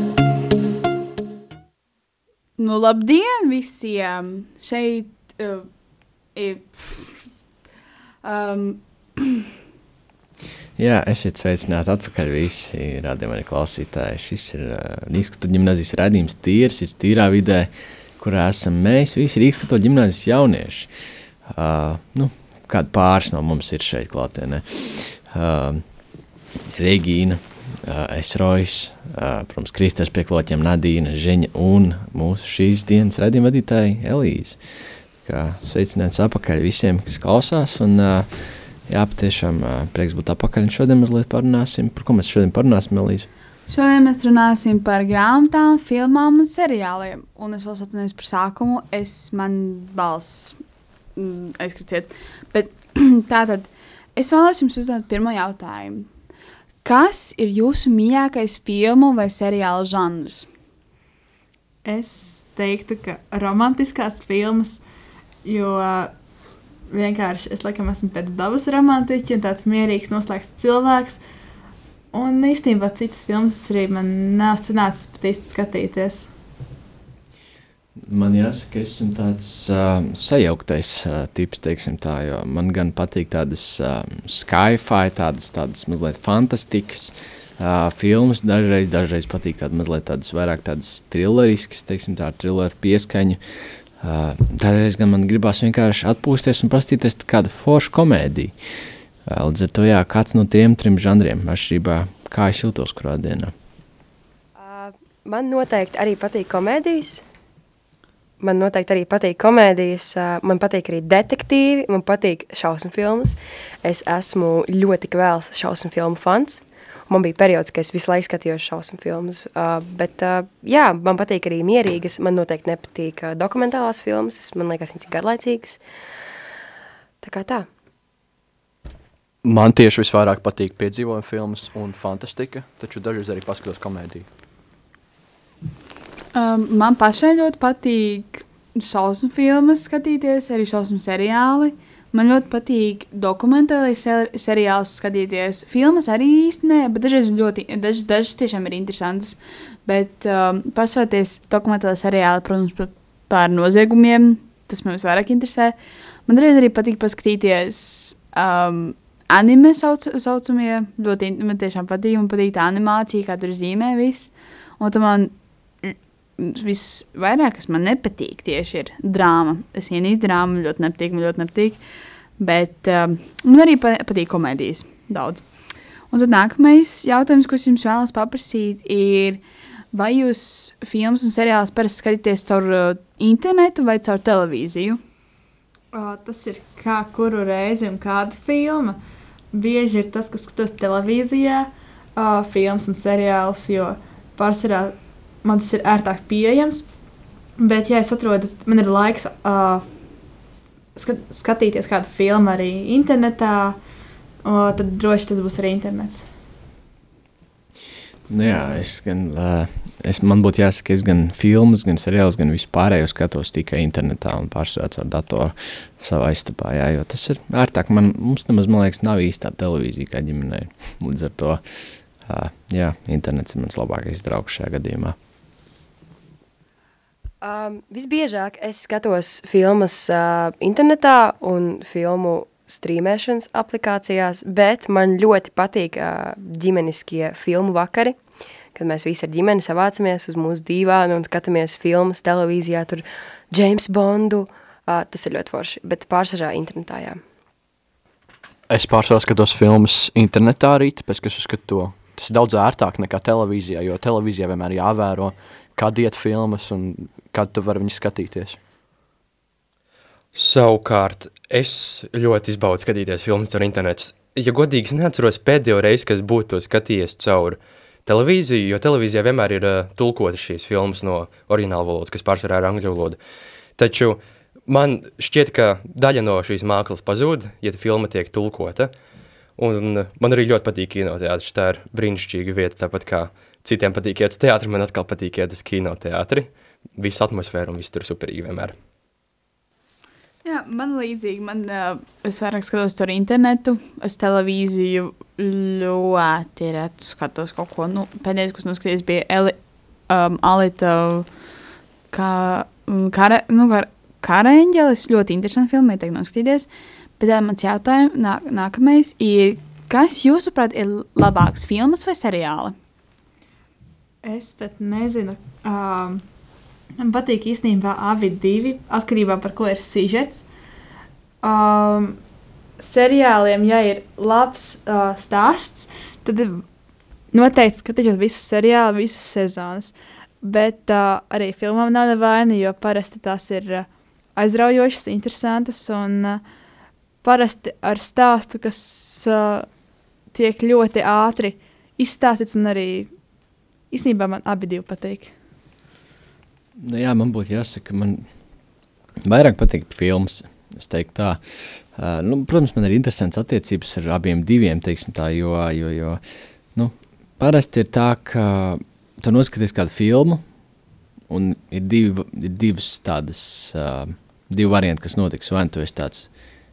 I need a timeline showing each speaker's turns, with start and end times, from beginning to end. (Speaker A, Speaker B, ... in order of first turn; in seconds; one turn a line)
Speaker A: 2.6-5.7
Speaker A: 6.3-7.4
Speaker A: 8.2-9.5
Speaker B: 10.8-20.9
Speaker B: 21.5-25.8
Speaker B: 26.7-34.6
Speaker B: 35.2-38.3
Speaker B: 38.9-43.3
Speaker A: 43.7-50.6
Speaker A: 51.2-56.1
Speaker A: 56.8-60.5
Speaker C: 61.9-64.8
Speaker C: 65.5-66.1
Speaker C: 66.9-71.2
Speaker C: 72.1-76.3
Speaker B: 78.0-98.6
Speaker B: 99.3-103.5
Speaker D: 104.6-107.2
Speaker D: 108.4-125.8
Speaker D: 127.2-127.7
Speaker E: 129.4-134.3
Speaker A: 136.3-171.8
Speaker A: 172.4-175.4
Speaker A: 176.1-185.0
Speaker C: 185.9-189.0
Speaker C: 189.5-196.9
Speaker C: 197.6-199.8
Speaker C: 201.0-203.8
Speaker C: 204.4-206.3
Speaker B: 208.3-221.6
Speaker B: 222.2-225.2
Speaker D: 227.4-238.2
Speaker D: 238.8-247.2
Speaker E: 248.7-258.6
Speaker F: 260.3-273.2
Speaker F: 273.8-278.9
Speaker F: 279.6-288.8
Speaker A: 290.4-299.6
Speaker A: 300.1-301.3
Speaker A: 302.1-312.8
Speaker C: 314.2-316.2
Speaker C: 317.0-320.5
Speaker C: 321.4-322.2
Speaker C: 322.8-326.6
Speaker C: 327.3-336.4
Speaker C: 337.2-339.7
Speaker C: 340.3-343.1
Speaker C: 343.9-345.3
Speaker B: 346.8-348.3
Speaker B: 349.2-356.2
Speaker B: 356.8-360.4
Speaker B: 361.3-366.3